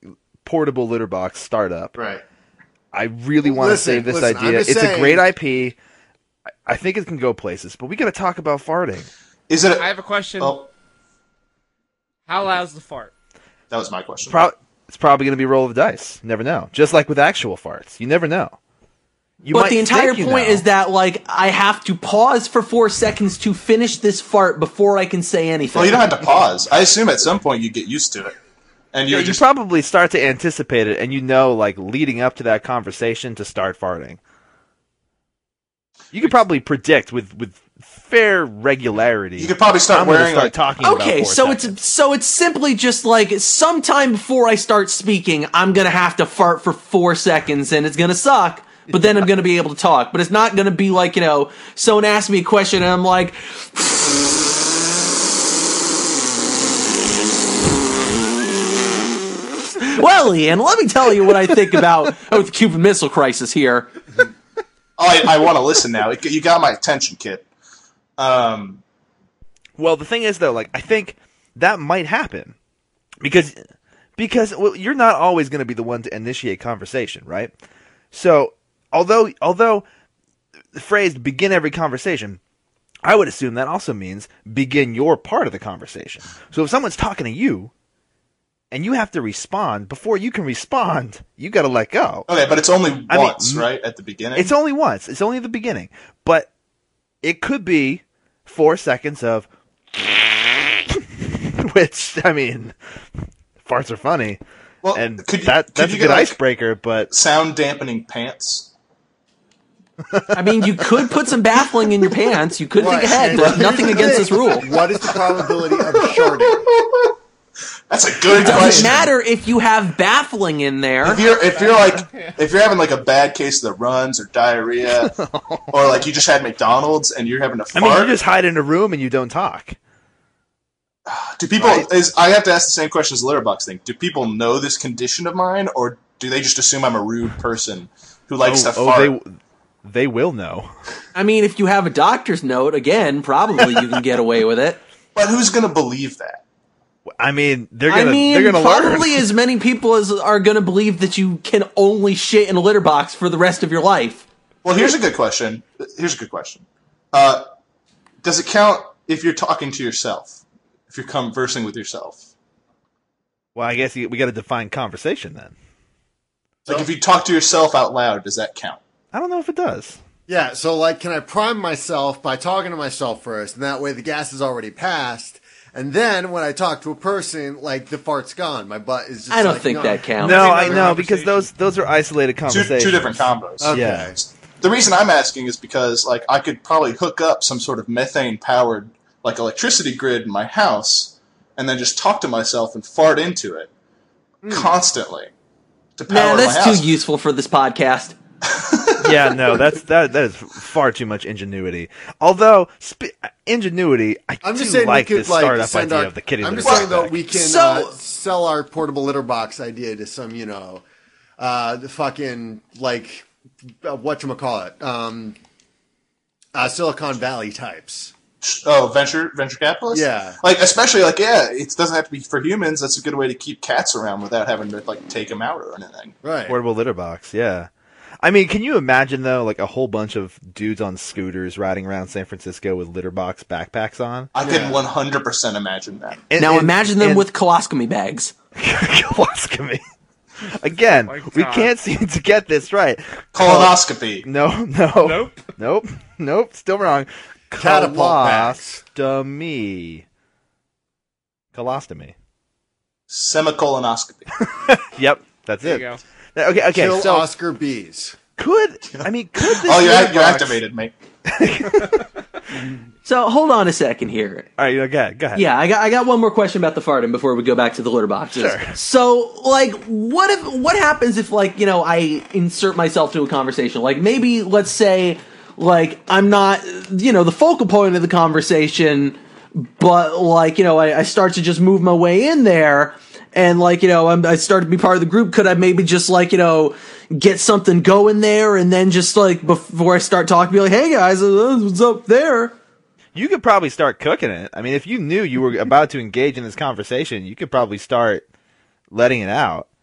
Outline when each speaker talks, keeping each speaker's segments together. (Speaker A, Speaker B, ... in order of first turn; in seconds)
Speaker A: 0.4-1.9, 2.9-5.8, 6.7-9.1, 14.3-18.6, 19.4-20.6, 29.1-34.2, 36.1-41.8, 69.8-72.5, 73.2-73.6, 74.2-77.5, 78.1-79.8, 80.7-82.4, 83.0-87.7, 88.7-92.2, 93.1-93.7, 94.3-96.5, 97.2-102.7, 103.6-104.4, 104.9-107.1, 110.1-111.0, 118.4-119.0, 124.9-125.8, 127.7-129.8, 131.6-131.9, 138.4-140.7, 147.2-149.3, 163.5-165.5, 169.1-170.0, 180.2-184.1, 199.0-207.2, 226.5-227.7, 228.2-234.3, 236.3-237.3, 238.6-239.8, 240.4-250.0, 251.5-252.1, 254.5-257.3, 258.4-260.6, 261.2-262.1, 264.6-265.4, 268.3-268.7, 293.1-298.2, 298.9-299.7
Speaker B: 3.4-5.3, 112.8-116.7, 170.3-180.9, 183.6-184.2, 194.4-194.7, 204.4-210.8, 211.4-213.2, 213.8-215.4, 216.5-218.1, 219.9-220.4, 226.2-226.6, 234.4-234.8, 247.6-248.8, 256.7-258.2
Speaker C: 9.5-10.7, 13.7-14.4, 25.7-28.4, 28.9-29.4, 39.4-40.5, 65.0-67.5, 68.2-68.8, 92.3-94.5, 104.8-106.4, 107.1-108.7, 113.3-117.1, 117.9-119.1, 121.0-125.2, 125.7-128.2, 131.1-139.1, 145.1-146.4, 154.6-157.5, 158.2-162.2, 166.7-168.8, 182.5-193.7, 194.4-195.3, 196.0-196.9, 198.5-199.3, 206.6-206.9, 218.4-226.1, 234.3-236.2, 243.3-244.2, 253.1-254.3, 258.9-260.9
Speaker D: 9.8-10.6, 12.2-13.1, 121.3-122.4, 180.2-181.5, 241.0-241.7, 245.0-245.4, 255.6-256.0
Speaker E: 19.5-26.0, 40.8-54.2, 59.7-63.9, 110.3-114.7, 118.4-121.2, 141.1-144.8, 147.9-154.2, 179.3-180.5, 196.1-198.2, 207.3-207.9, 236.4-238.3, 263.0-264.5, 265.3-292.5